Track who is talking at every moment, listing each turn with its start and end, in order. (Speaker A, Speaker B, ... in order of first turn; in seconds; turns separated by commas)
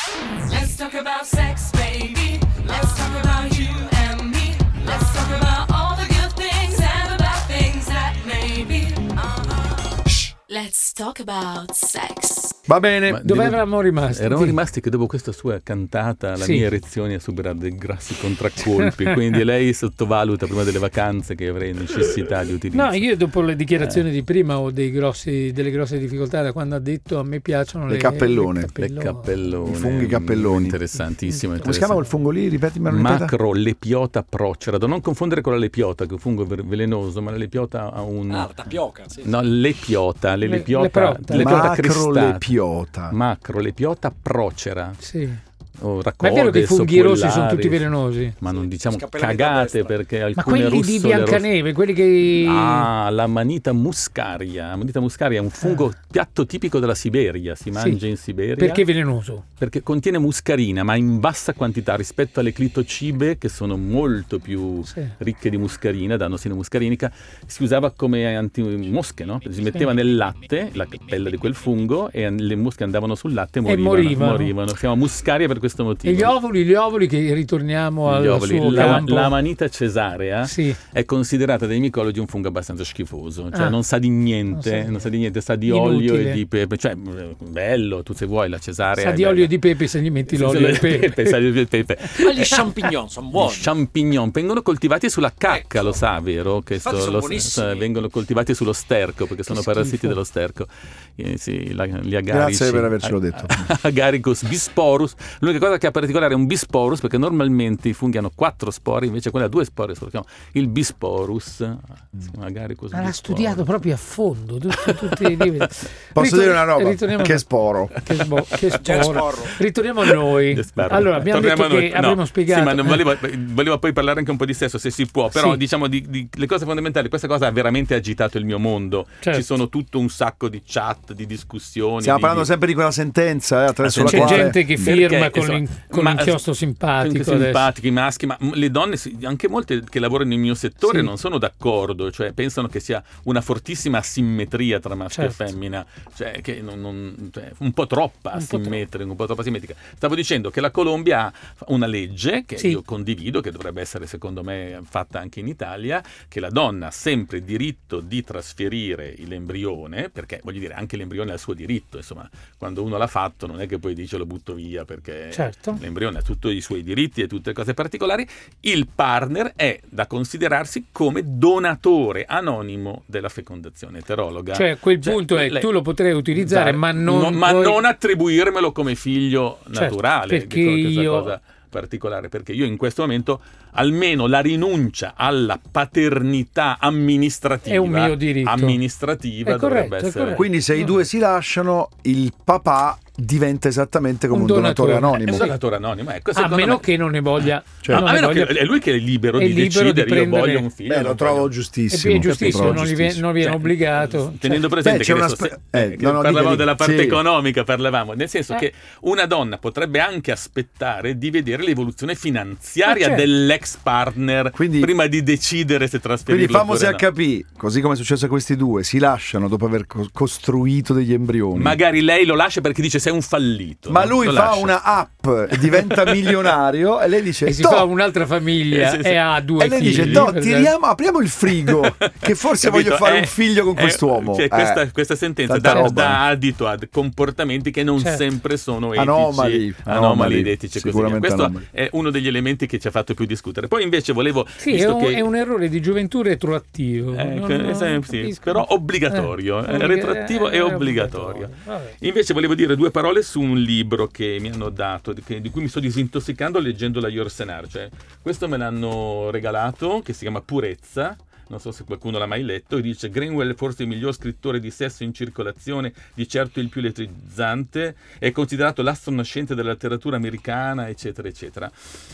Speaker A: 0.4-12.6, Speaker B: 12.7-13.2, Speaker C: 13.1-23.0, Speaker D: 13.2-14.6, Speaker D: 16.4-16.7, Speaker D: 18.7-19.1, Speaker D: 22.7-29.3, Speaker B: 27.9-28.7, Speaker C: 28.8-32.0, Speaker B: 29.6-30.8, Speaker D: 31.3-31.7, Speaker B: 31.6-33.3, Speaker C: 32.9-38.5, Speaker E: 38.3-39.3, Speaker C: 39.2-42.5, Speaker D: 40.4-41.7, Speaker B: 41.3-43.1, Speaker C: 43.1-45.0, Speaker D: 45.0-45.4, Speaker C: 45.8-47.9, Speaker D: 46.2-48.4, Speaker C: 48.4-51.5, Speaker E: 48.4-50.0, Speaker D: 50.4-52.9, Speaker C: 52.3-58.9, Speaker D: 57.8-58.0, Speaker D: 58.6-59.4, Speaker C: 59.6-76.3, Speaker D: 73.7-74.5, Speaker D: 76.0-79.4, Speaker C: 78.0-89.5, Speaker D: 80.5-80.8, Speaker D: 84.5-85.0, Speaker D: 85.7-86.4, Speaker D: 89.0-91.4, Speaker C: 90.3-92.6, Speaker E: 92.1-93.7, Speaker C: 93.3-113.7, Speaker E: 95.5-96.0, Speaker E: 96.8-97.9, Speaker D: 99.5-100.2, Speaker B: 102.3-103.7, Speaker D: 112.9-123.0, Speaker C: 114.8-115.5, Speaker B: 116.1-118.0, Speaker C: 118.2-119.2, Speaker E: 118.8-119.6, Speaker C: 120.5-132.5, Speaker D: 125.3-125.6, Speaker B: 132.0-134.8, Speaker C: 133.8-136.4, Speaker D: 134.0-137.7, Speaker C: 137.0-175.7, Speaker D: 140.8-141.1, Speaker D: 145.1-145.4, Speaker D: 148.3-148.8, Speaker D: 165.3-165.8, Speaker D: 174.5-177.8, Speaker C: 176.3-190.5, Speaker D: 179.7-181.3, Speaker D: 187.7-188.8, Speaker D: 189.5-190.8, Speaker B: 190.3-195.5, Speaker D: 194.3-195.5, Speaker C: 195.2-197.0, Speaker D: 196.3-198.6, Speaker B: 197.8-198.1, Speaker C: 197.8-201.5, Speaker D: 199.4-200.7, Speaker B: 200.8-203.2, Speaker D: 201.9-204.7, Speaker C: 202.2-217.1, Speaker B: 204.8-207.2, Speaker D: 212.9-213.2, Speaker B: 214.6-214.9, Speaker B: 216.3-221.8, Speaker C: 221.5-224.7, Speaker B: 223.9-227.9, Speaker C: 225.5-226.5, Speaker D: 227.4-230.7, Speaker C: 228.7-230.3, Speaker B: 229.6-234.8, Speaker C: 231.7-245.2, Speaker B: 235.5-236.2, Speaker D: 235.7-236.0, Speaker B: 238.9-241.6, Speaker D: 244.6-252.0, Speaker C: 247.1-271.7